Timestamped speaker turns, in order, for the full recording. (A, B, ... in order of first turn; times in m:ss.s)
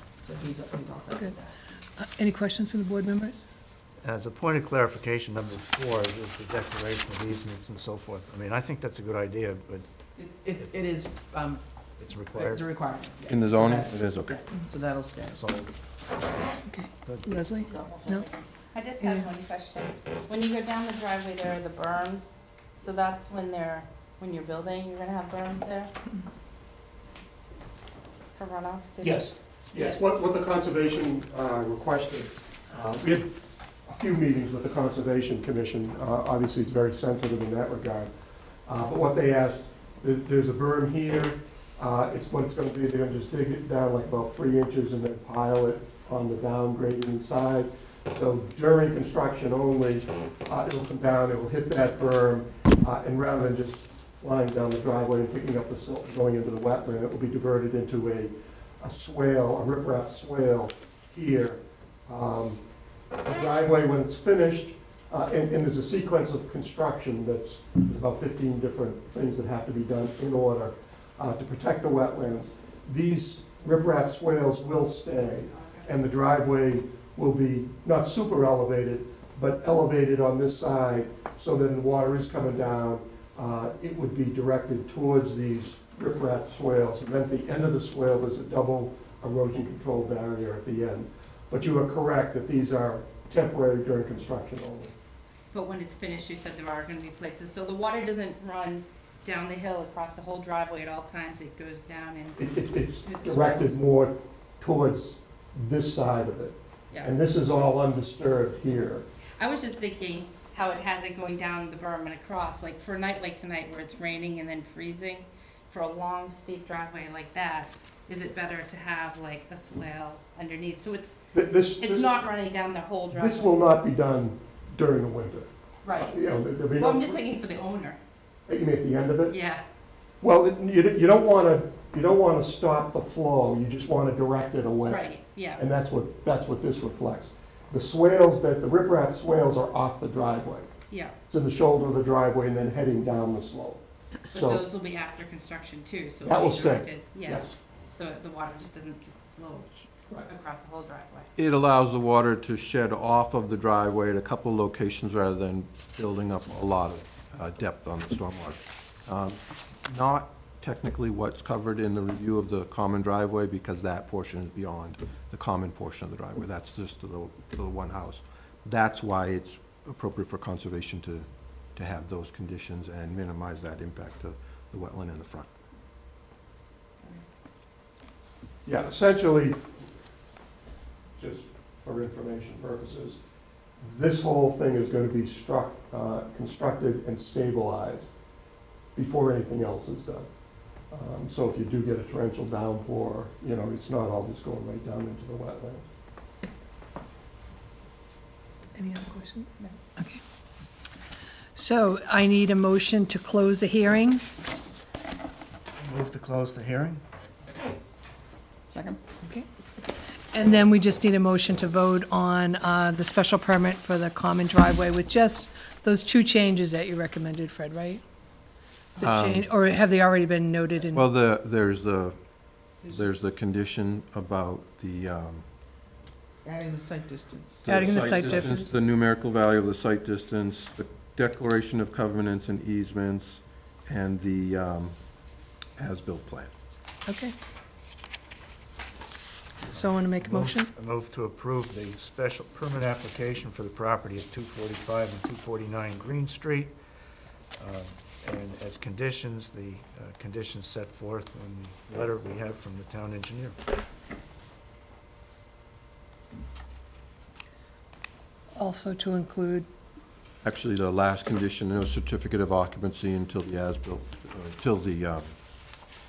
0:00.2-0:01.6 A
0:02.1-0:03.5 B
0:04.0-0:09.9 C
0:10.2-0:11.6 A
0:12.0-0:12.7 C
0:12.3-0:15.5 A
0:13.3-0:14.4 D
0:15.3-0:15.7 C
0:16.6-0:17.7 B
0:17.0-0:17.3 C
0:17.7-0:18.4 A
0:18.7-0:25.9 E
0:28.3-0:30.0 E
0:29.0-0:33.3 F
0:33.8-0:38.1 F
0:38.6-1:02.6 F
1:03.2-1:34.9 F
1:35.5-1:43.7 E
1:42.4-1:49.0 F
1:49.4-2:01.2 E
2:01.3-2:02.1 F
2:01.8-2:03.6 E
2:03.1-2:07.2 F
2:05.8-2:06.2 E
2:06.8-2:08.0 E
2:08.5-2:09.4 F
2:09.3-2:09.6 E
2:10.2-2:15.0 F
2:14.8-2:15.6 E
2:15.6-2:20.7 F
2:21.3-2:24.6 F
2:24.3-2:29.7 E
2:26.2-2:27.5 F
2:30.2-2:31.3 E
2:31.4-2:55.5 D
2:58.6-2:59.6 F
3:01.2-3:03.2 F
3:03.8-3:08.1 F
3:09.0-3:10.3 F
3:10.9-3:15.8 F
3:18.8-3:20.2 B
3:21.5-3:24.3 B
3:25.8-3:27.0 C
3:29.2-3:29.5 B
3:30.3-3:38.0 B
3:39.0-3:41.0 B
3:39.0-3:39.5 D
3:40.9-3:42.2 D
3:42.7-3:45.5 D
3:46.4-3:48.4 A
3:47.6-3:55.0 D
3:47.7-3:48.7 B
3:55.8-3:56.5 D
3:57.0-3:57.4 B
3:59.6-4:06.8 C
3:59.8-4:00.7 B
4:07.6-4:13.6 C
4:18.6-4:19.7 B
4:20.4-4:25.3 D